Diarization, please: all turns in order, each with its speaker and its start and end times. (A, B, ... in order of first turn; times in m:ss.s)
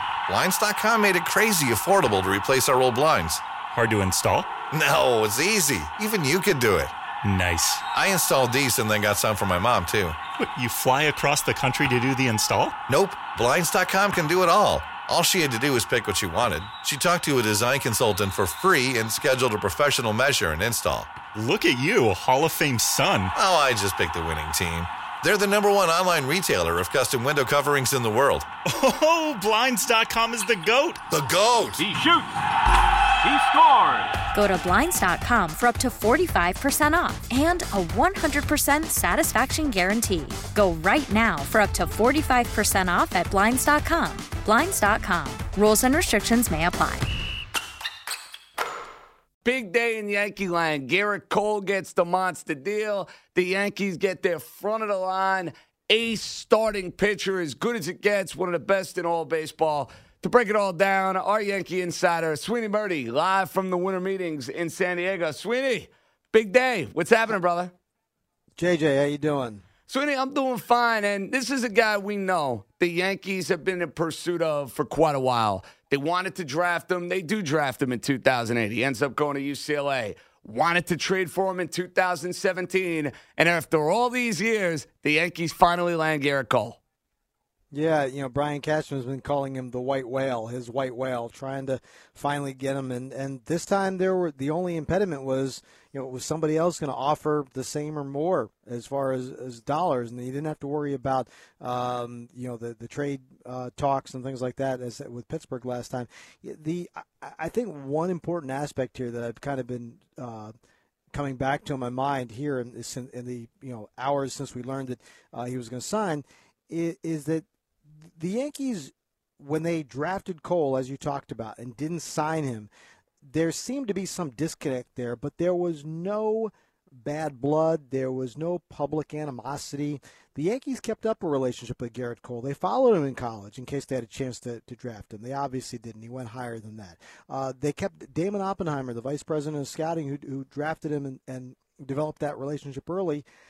0:00.3-0:03.4 A
0:03.7-0:04.5 B
0:04.7-0:06.9 A
0:07.2-0:07.8 B
0:07.9-0:10.2 A
0:10.4-0:12.8 B
0:12.9-0:21.2 A
0:21.3-0:23.3 B
0:23.3-0:28.5 A
0:28.7-0:31.0 B
0:31.1-0:31.8 A
0:31.8-0:32.2 C
0:33.2-0:34.1 C
0:34.3-0:47.1 D
0:49.4-1:07.7 C
1:08.6-1:09.6 E
1:09.9-1:26.8 C
1:27.7-1:50.5 E
1:51.1-1:57.4 E
1:58.2-2:02.7 E
2:03.2-2:23.2 E